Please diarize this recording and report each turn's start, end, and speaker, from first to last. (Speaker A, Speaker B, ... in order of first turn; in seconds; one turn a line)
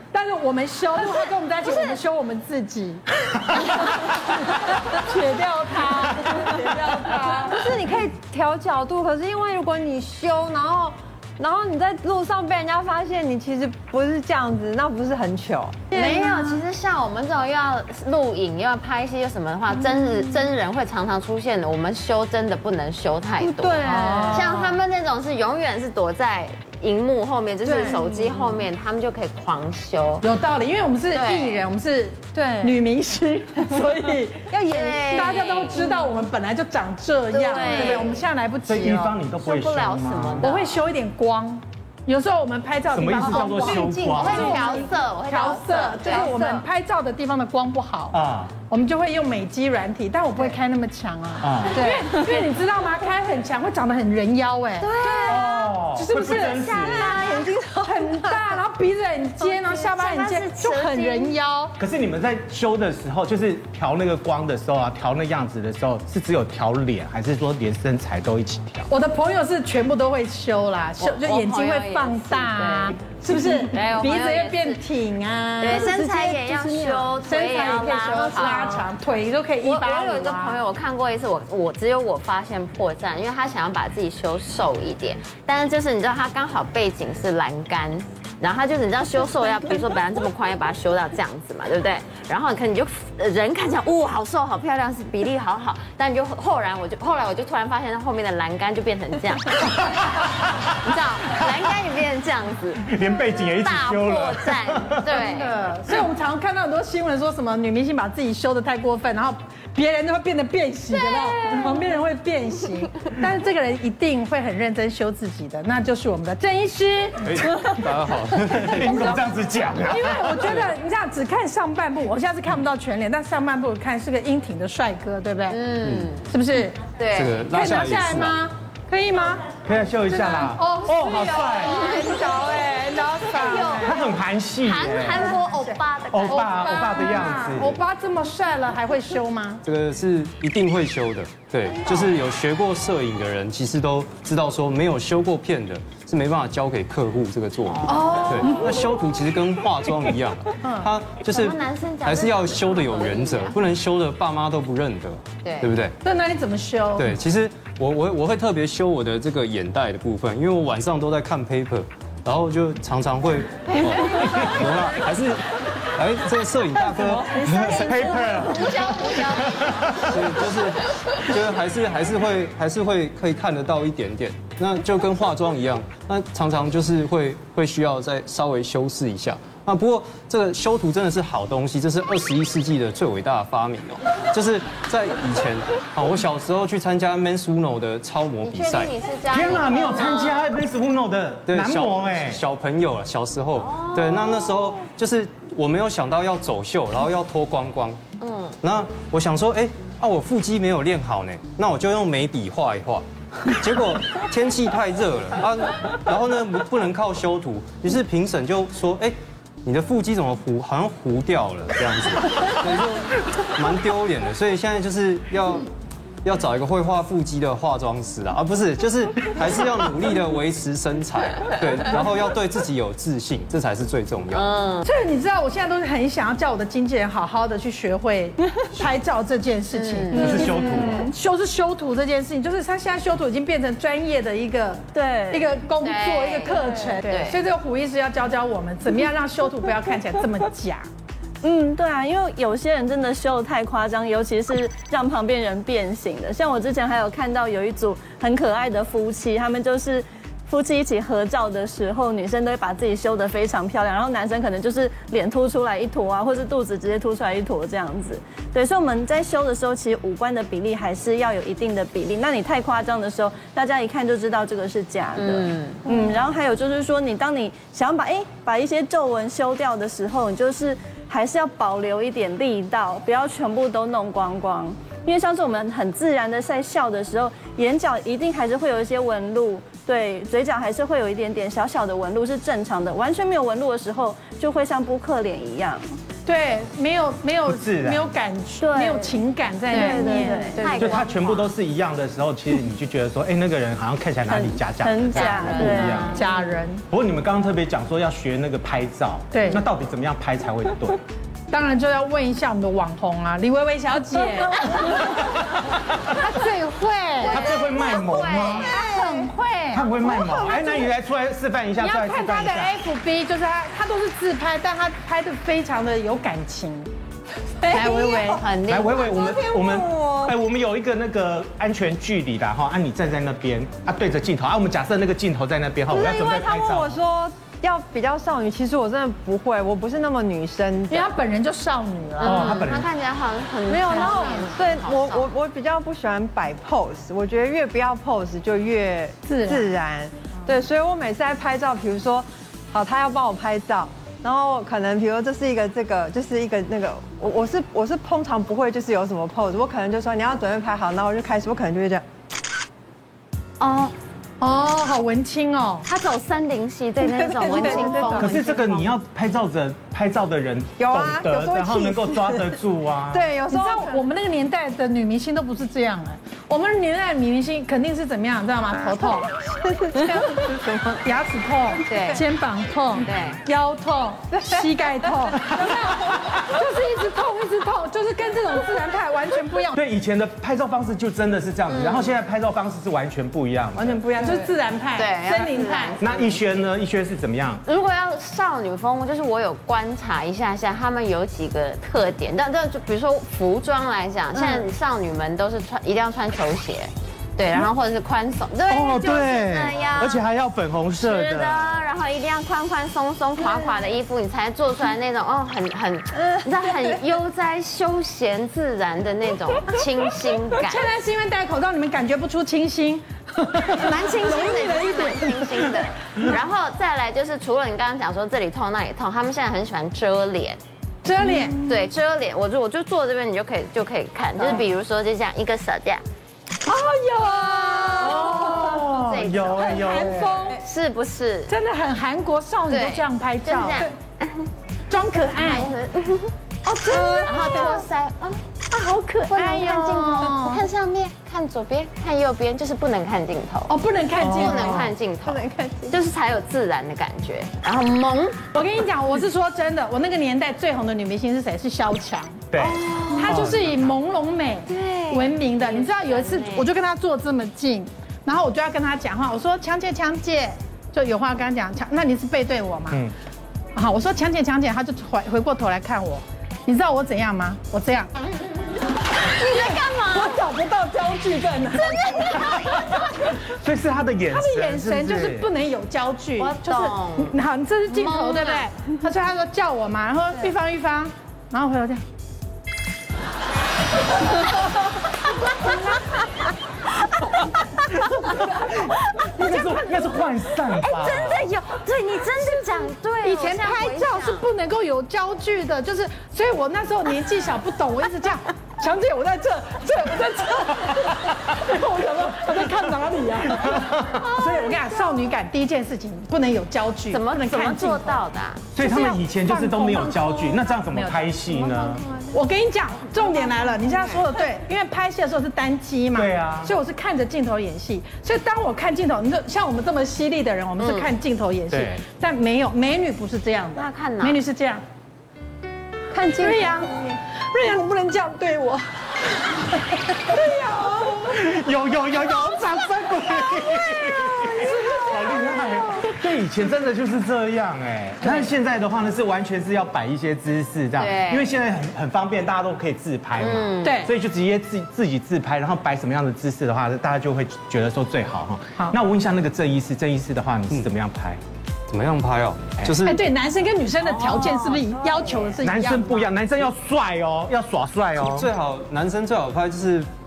Speaker A: 0.1-7.6
Speaker B: 7.5-16.4
Speaker C: 15.9-30.3
Speaker B: 23.4-24.7
Speaker A: 24.0-24.5
Speaker B: 27.6-28.2
Speaker A: 30.2-39.2
Speaker C: 31.1-31.7
Speaker B: 32.4-32.8
Speaker B: 34.5-35.6
Speaker C: 34.6-36.1
Speaker C: 37.3-38.2
Speaker B: 37.5-38.0
Speaker D: 38.6-40.5
Speaker C: 39.4-40.8
Speaker A: 40.4-48.2
Speaker D: 42.9-44.6
Speaker C: 43.3-46.6
Speaker D: 48.1-48.5
Speaker A: 48.7-61.7
Speaker D: 51.4-51.9
Speaker C: 55.0-55.4
Speaker B: 55.0-55.3
Speaker D: 55.3-57.2
Speaker B: 56.8-58.5
Speaker C: 57.1-57.4
Speaker C: 59.4-61.3
Speaker D: 61.8-68.9
Speaker A: 68.9-80.7
Speaker C: 71.0-74.8
Speaker C: 75.6-78.9
Speaker C: 79.6-100.2
Speaker C: 100.7-102.9
Speaker D: 102.8-105.1
Speaker C: 103.6-105.6
Speaker A: 105.1-117.8
Speaker C: 111.1-111.4
Speaker E: 117.2-119.2
Speaker D: 118.5-120.5
Speaker A: 118.7-119.2
Speaker A: 119.8-125.7
Speaker C: 125.5-126.3
Speaker E: 125.8-126.1
Speaker A: 126.2-129.5
Speaker C: 127.0-127.4
Speaker E: 127.1-128.4
Speaker D: 129.6-131.9
Speaker A: 130.1-134.1
Speaker C: 131.5-132.4
Speaker C: 133.3-136.8
Speaker D: 133.8-135.4
Speaker A: 135.1-139.6
Speaker D: 136.1-137.8
Speaker E: 139.6-155.9
Speaker C: 147.7-148.5
Speaker A: 147.9-148.6
Speaker A: 150.6-150.9
Speaker C: 151.3-153.6
Speaker C: 155.4-155.7
Speaker A: 156.0-157.2
Speaker E: 157.0-165.4
Speaker D: 164.1-164.6
Speaker E: 165.9-167.6
Speaker F: 167.1-168.5
Speaker D: 167.3-170.4
Speaker C: 167.5-170.1
Speaker E: 170.1-188.9
Speaker C: 188.4-190.4
Speaker D: 189.3-192.4
Speaker E: 191.5-198.0
Speaker C: 193.6-194.6
Speaker C: 198.2-198.6
Speaker E: 198.6-215.7
Speaker E: 216.2-224.5
Speaker C: 224.3-224.9
Speaker A: 224.8-240.9
Speaker C: 229.7-230.7
Speaker D: 230.1-231.1
Speaker F: 234.9-235.5
Speaker C: 235.8-237.4
Speaker F: 241.4-285.8
Speaker C: 265.2-265.8
Speaker A: 286.2-290.5
Speaker D: 287.5-288.1
Speaker F: 288.6-289.2
Speaker C: 289.7-291.5
Speaker F: 289.7-291.0
Speaker D: 290.8-296.2
Speaker F: 294.3-296.2
Speaker C: 295.1-296.6
Speaker A: 296.1-296.8
Speaker D: 296.9-301.0
Speaker A: 299.3-299.6
Speaker A: 301.5-305.4
Speaker A: 306.1-307.4
Speaker C: 307.2-308.9
Speaker D: 307.3-308.7
Speaker A: 308.7-310.0
Speaker B: 308.9-309.3
Speaker D: 309.7-312.8
Speaker B: 310.0-310.8
Speaker A: 311.8-316.9
Speaker A: 317.6-318.4
Speaker C: 317.7-319.3
Speaker B: 318.0-318.3
Speaker D: 318.7-327.0
Speaker B: 318.9-320.4
Speaker B: 325.9-331.1
Speaker A: 330.9-332.4
Speaker C: 332.2-335.3
Speaker D: 332.2-332.9
Speaker B: 333.7-352.0
Speaker A: 333.9-334.5
Speaker A: 339.3-339.7
Speaker C: 353.6-353.9
Speaker A: 354.4-355.9
Speaker C: 355.9-358.9
Speaker B: 357.0-358.4
Speaker A: 357.4-358.0
Speaker D: 358.2-363.3
Speaker B: 360.8-362.6
Speaker B: 363.1-364.0
Speaker A: 363.5-369.4
Speaker B: 369.6-370.0
Speaker A: 369.9-379.8
Speaker C: 371.9-372.3
Speaker C: 373.0-373.4
Speaker B: 374.3-375.8
Speaker D: 379.7-384.1
Speaker C: 381.7-382.2
Speaker A: 383.8-386.0
Speaker B: 384.1-384.5
Speaker C: 384.2-386.4
Speaker D: 386.0-387.6
Speaker C: 387.6-400.2
Speaker B: 394.4-394.6
Speaker D: 398.7-401.9
Speaker C: 401.0-410.9
Speaker A: 410.5-415.7
Speaker C: 413.8-420.6
Speaker A: 421.1-421.8
Speaker C: 421.6-426.0
Speaker A: 424.4-424.7
Speaker A: 426.6-429.0
Speaker D: 428.0-430.6
Speaker C: 428.3-430.1
Speaker A: 429.6-430.6
Speaker C: 430.6-431.5
Speaker A: 431.5-433.9
Speaker C: 432.7-434.5
Speaker A: 434.9-435.7
Speaker C: 435.2-436.3
Speaker A: 436.6-437.9
Speaker C: 436.9-443.7
Speaker A: 439.3-440.7
Speaker A: 443.7-444.9
Speaker B: 444.2-446.0
Speaker C: 444.3-448.5
Speaker A: 448.5-463.0
Speaker D: 452.5-453.9
Speaker C: 452.6-453.4
Speaker C: 454.7-456.7
Speaker A: 463.8-468.1
Speaker C: 469.2-470.4
Speaker A: 469.4-473.3
Speaker D: 473.5-475.5
Speaker A: 474.3-482.0
Speaker C: 476.4-477.3
Speaker C: 477.9-478.7
Speaker D: 488.1-491.4
Speaker C: 490.8-494.4
Speaker A: 493.2-508.2
Speaker D: 503.6-504.2
Speaker C: 504.2-505.3
Speaker C: 507.1-508.8
Speaker D: 508.7-512.0
Speaker A: 508.8-524.8
Speaker C: 513.9-514.3
Speaker D: 516.1-516.7
Speaker C: 520.8-521.1
Speaker D: 521.7-522.0
Speaker C: 523.8-524.4
Speaker A: 526.1-528.8
Speaker A: 529.5-531.3
Speaker D: 531.2-551.4
Speaker A: 534.4-536.1
Speaker A: 538.2-538.5
Speaker C: 541.0-541.5
Speaker C: 543.4-544.0
Speaker A: 543.8-544.1
Speaker E: 551.9-553.2
Speaker A: 553.0-556.3
Speaker C: 554.3-555.0
Speaker D: 555.6-558.5
Speaker E: 558.2-560.1